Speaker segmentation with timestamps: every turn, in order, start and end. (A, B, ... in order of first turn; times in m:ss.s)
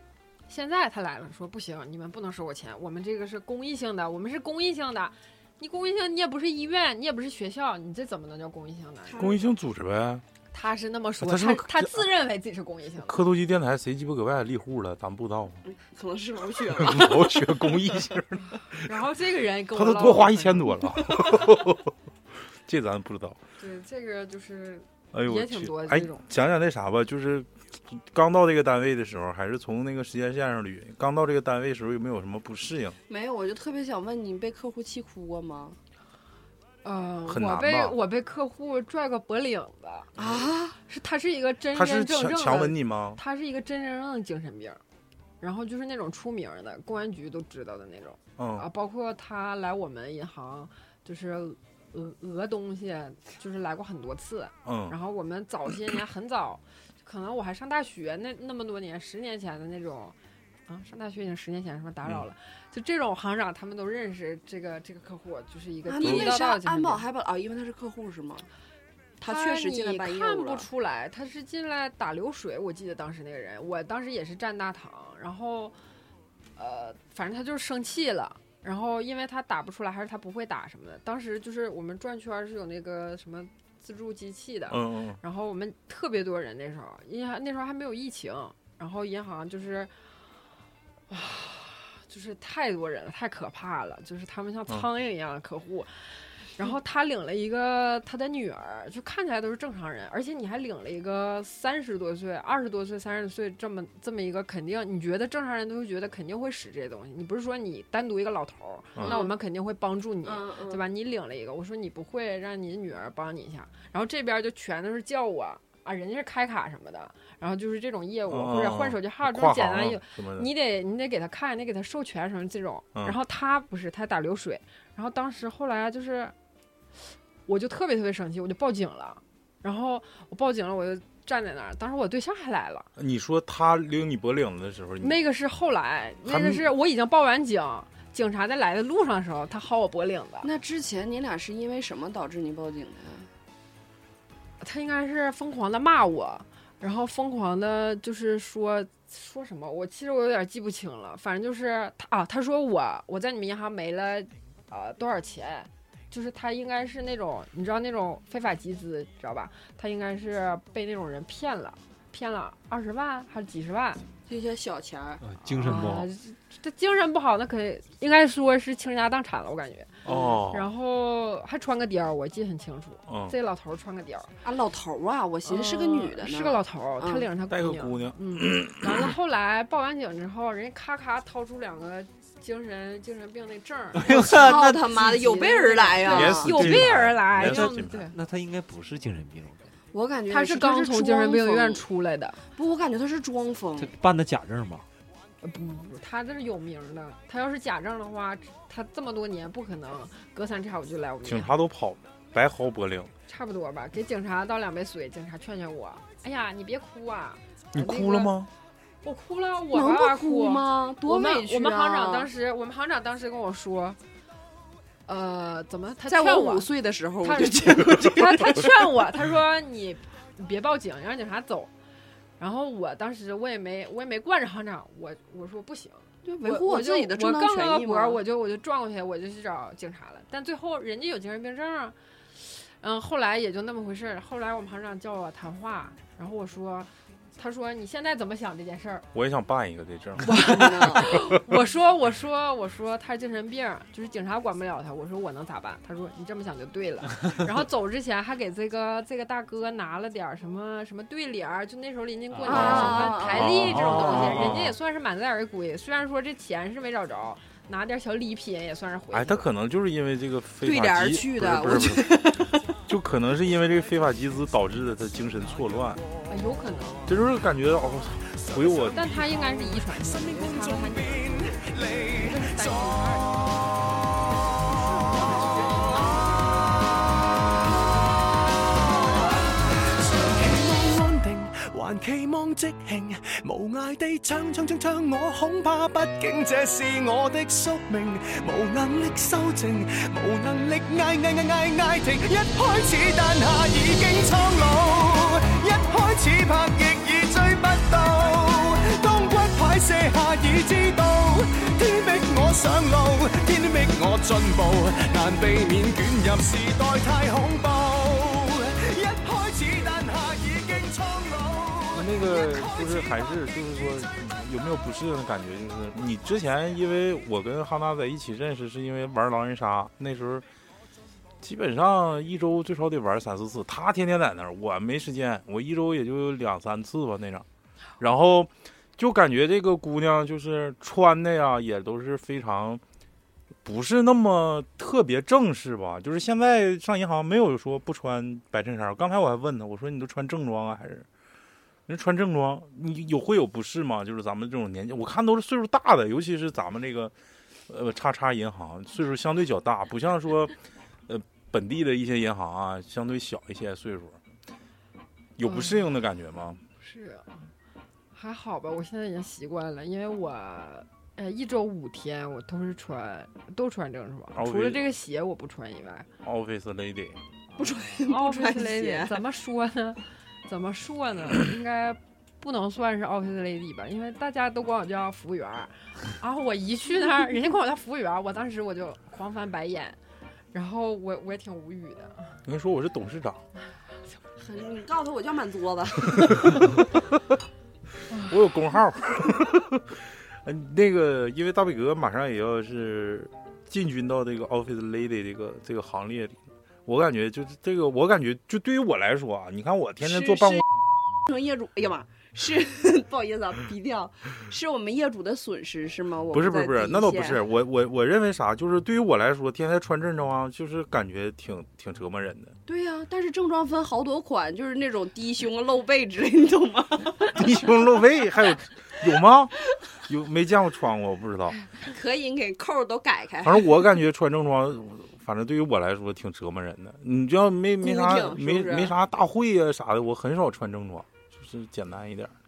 0:00.5-0:09.2 A
0:09.1-0:09.5 B
0:09.2-0:10.2 C
0:10.5-0:13.2 A
0:11.2-0:12.0 C
0:13.1-0:15.6 C
0:15.6-0:17.4 B
0:16.8-0:18.9 C
0:18.7-0:20.8 A
0:19.7-0:21.9 C
0:22.7-0:23.4 C
0:23.6-0:26.2 A
0:25.1-0:33.0 C
0:33.1-0:35.8 B
0:36.8-0:40.1 A
0:37.3-0:38.0 C
0:40.2-0:40.8 B
0:40.9-0:44.8 A
0:41.7-0:43.2 C
0:45.4-1:00.1 A
0:48.4-0:48.6 C
0:54.6-0:54.9 C
1:00.7-1:07.0 A
1:05.8-1:08.5 B
1:06.0-1:06.3 C
1:09.2-1:10.6 B
1:09.2-1:15.7 A
1:16.6-1:29.9 A
1:24.7-1:25.2 C
1:31.1-2:06.3 A
1:49.0-1:49.3 B
1:50.2-1:50.8 B
1:58.3-2:00.5 C
2:07.5-2:12.9 A
2:13.0-2:15.2 C
2:15.0-2:20.5 A
2:16.2-2:16.6 C
2:20.4-2:23.3 B
2:24.6-2:44.0 A
2:44.3-2:46.0 B
2:45.2-2:46.1 D
2:45.6-2:54.3 A
2:50.0-2:50.7 C
2:50.0-2:50.4 B
2:53.1-2:53.3 C
2:54.4-2:57.3 B
2:55.4-3:08.1 A
2:57.5-2:59.1 C
3:03.9-3:04.9 D
3:04.0-3:06.8 B
3:06.0-3:08.1 C
3:07.4-3:09.7 D
3:09.9-3:11.8 B
3:10.3-3:12.4 A
3:12.5-3:13.9 B
3:13.8-3:14.8 D
3:15.4-3:21.5 A
3:21.2-3:23.1 C
3:23.3-3:28.3 A
3:27.7-3:28.5 C
3:29.0-3:34.0 A
3:29.7-3:32.3 B
3:35.1-3:36.7 A
3:36.1-3:38.7 B
3:37.2-3:41.7 A
3:42.4-3:59.1 A
3:46.2-3:48.2 B
3:59.1-4:01.3 C
4:00.2-4:19.4 A
4:00.3-4:01.1 B
4:12.3-4:12.8 D
4:12.4-4:14.5 B
4:12.5-4:14.8 C
4:19.1-4:22.2 C
4:20.6-4:22.6 B
4:22.9-4:26.0 C
4:26.3-4:27.1 A
4:27.1-4:29.1 C
4:28.4-4:32.9 E
4:28.9-4:33.4 A
4:34.9-4:37.0 E
4:38.8-5:14.3 E
5:11.9-5:20.4 C
5:21.4-5:27.4 C
5:28.0-5:32.8 C
5:33.6-5:41.0 C
5:41.9-5:47.1 C
5:47.7-5:50.5 C
5:51.1-5:54.2 C
5:55.4-5:56.6 C
5:55.4-5:55.8 A
5:56.8-5:57.5 A
5:58.1-6:06.1 A
6:04.4-6:04.8 C
6:06.2-6:07.2 C
6:07.6-6:09.2 B
6:08.0-6:20.0 A
6:20.5-6:22.4 A
6:22.4-6:23.4 C
6:24.4-6:26.9 B
6:28.1-6:28.4 A
6:28.3-6:29.8 C
6:30.4-6:40.6 C
6:40.0-6:40.6 B
6:41.3-6:47.4 B
6:46.3-6:52.6 C
6:52.7-6:57.7 B
6:57.3-6:59.5 C
7:00.1-7:01.6 C
7:01.8-7:03.7 B
7:03.4-7:12.3 C
7:07.8-7:08.9 B